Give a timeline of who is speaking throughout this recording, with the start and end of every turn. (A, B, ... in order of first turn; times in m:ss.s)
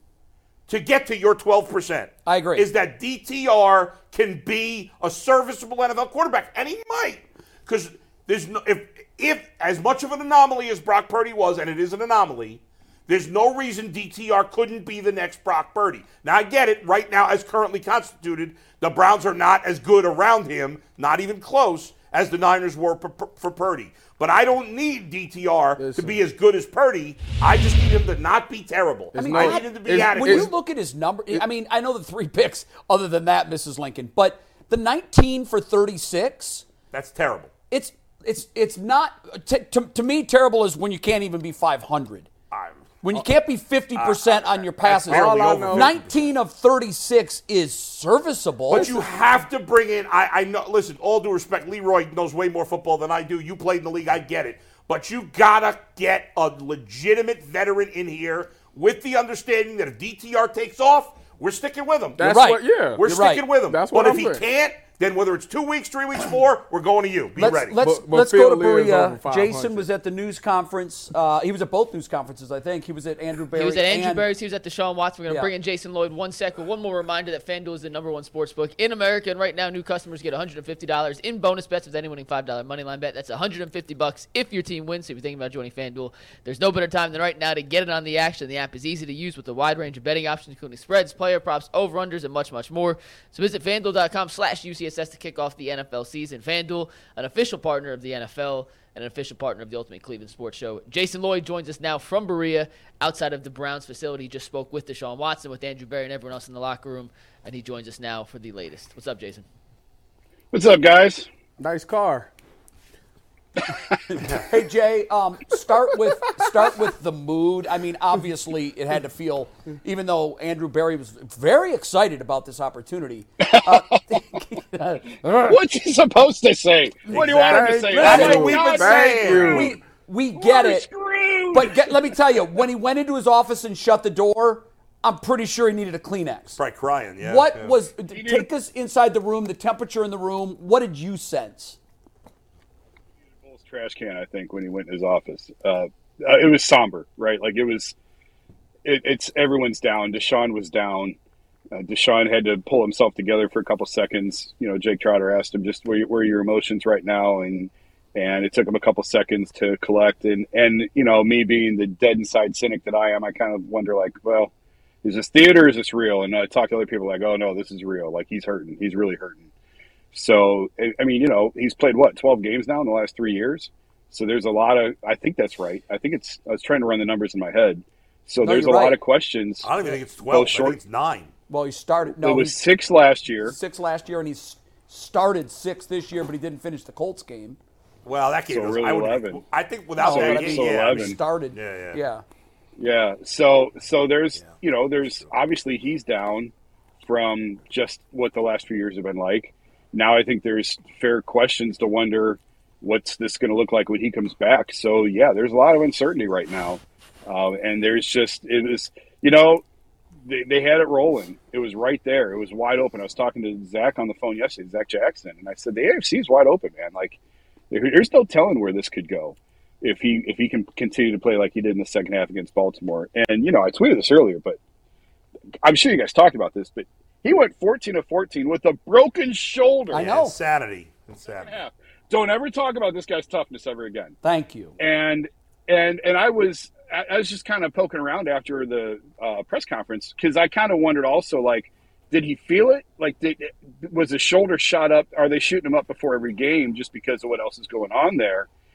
0:00.7-0:30.5 A
0:02.2-0:02.6 B
0:25.8-0:26.2 C
0:29.1-0:30.5 C
0:29.1-0:36.6 B
0:36.9-0:37.5 A
0:37.7-0:42.3 B
0:42.5-0:43.2 A
0:43.0-0:48.9 B
0:44.0-0:46.3 A
0:45.0-0:45.9 C
0:48.7-1:02.2 A
0:48.7-0:49.1 C
1:02.2-1:03.0 C
1:02.2-1:03.4 B
1:03.0-1:07.8 A
1:03.7-1:04.4 C
1:07.4-1:14.2 B
1:07.8-1:09.9 C
1:13.5-1:49.4 D
1:50.5-1:51.3 E
1:51.6-1:52.3 C
1:54.1-2:05.3 B
2:03.4-2:04.2 E
2:05.3-2:09.5 E
2:07.1-2:09.7 A
2:07.5-2:09.7 C
2:07.9-2:10.9 B
2:10.4-2:11.8 E
2:11.5-2:16.6 B
2:16.6-2:17.7 A
2:17.2-2:21.8 B
2:18.1-2:18.5 E
2:23.4-2:27.9 E
2:28.8-2:31.1 E
2:31.7-2:44.5 E
2:45.0-2:49.5 E
2:50.1-3:00.8 E
2:58.4-2:59.0 B
2:59.6-3:01.3 A
3:01.5-3:02.6 B
3:02.1-3:03.6 E
3:03.4-3:07.6 B
3:08.0-3:12.0 A
3:08.5-3:09.4 E
3:10.0-3:11.2 E
3:10.0-3:12.2 B
3:12.8-3:16.5 E
3:17.0-3:29.6 E
3:30.2-3:37.2 E
3:37.7-3:44.6 E
3:45.6-3:50.1 E
3:49.9-3:50.4 B
3:49.9-3:51.6 A
3:51.4-3:54.2 E
3:54.2-3:54.8 B
3:54.8-4:08.5 E